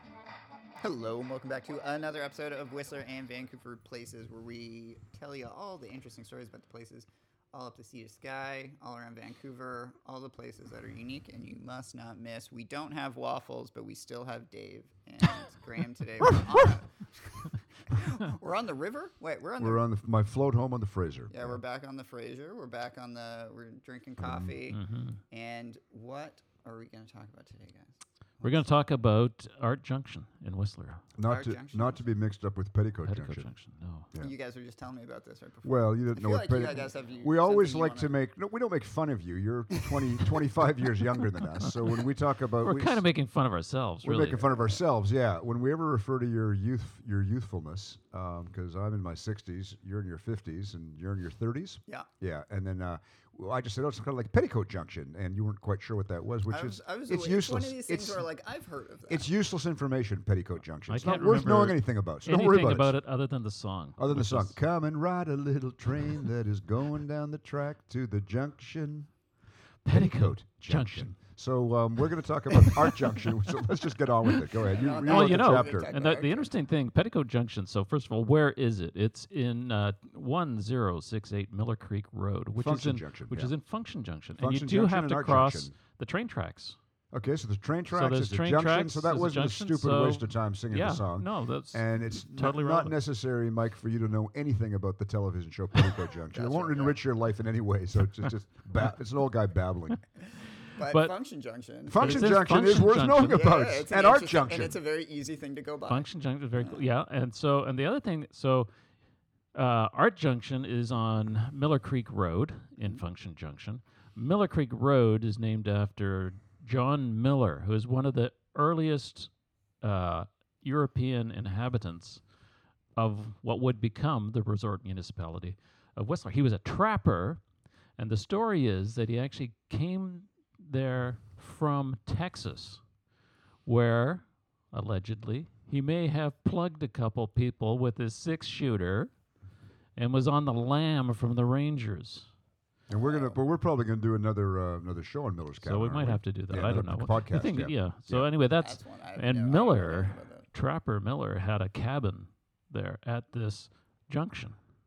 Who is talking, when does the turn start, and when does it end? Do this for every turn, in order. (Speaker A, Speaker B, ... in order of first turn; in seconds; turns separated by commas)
Speaker A: 0.8-19.9, Speaker B: 19.6-21.4, Speaker A: 21.3-28.7, Speaker B: 24.2-24.6, Speaker C: 24.7-25.2, Speaker C: 28.4-31.0, Speaker B: 31.2-33.5, Speaker A: 31.2-32.0, Speaker C: 33.0-34.1, Speaker A: 34.2-38.1, Speaker B: 35.6-43.0, Speaker C: 42.6-44.5, Speaker B: 44.0-58.2, Speaker A: 56.5-59.3, Speaker B: 59.1-62.9, Speaker C: 60.9-64.6, Speaker B: 64.0-69.1, Speaker C: 69.8-71.1, Speaker B: 69.9-75.9, Speaker C: 72.7-73.2, Speaker C: 74.4-86.8, Speaker A: 74.7-76.5, Speaker B: 82.6-83.5, Speaker B: 84.4-85.8, Speaker B: 87.1-100.0, Speaker C: 87.9-93.0, Speaker A: 96.3-97.0, Speaker A: 100.8-102.4, Speaker C: 100.8-101.2, Speaker B: 101.9-104.8, Speaker C: 101.9-103.5, Speaker A: 103.2-106.8, Speaker C: 105.9-108.7, Speaker C: 109.5-119.3, Speaker C: 119.8-122.2, Speaker C: 123.0-127.4, Speaker C: 128.0-132.8, Speaker C: 133.7-139.1, Speaker C: 140.0-142.3, Speaker B: 142.9-148.3, Speaker A: 143.0-143.4, Speaker C: 145.6-154.6, Speaker A: 148.6-150.5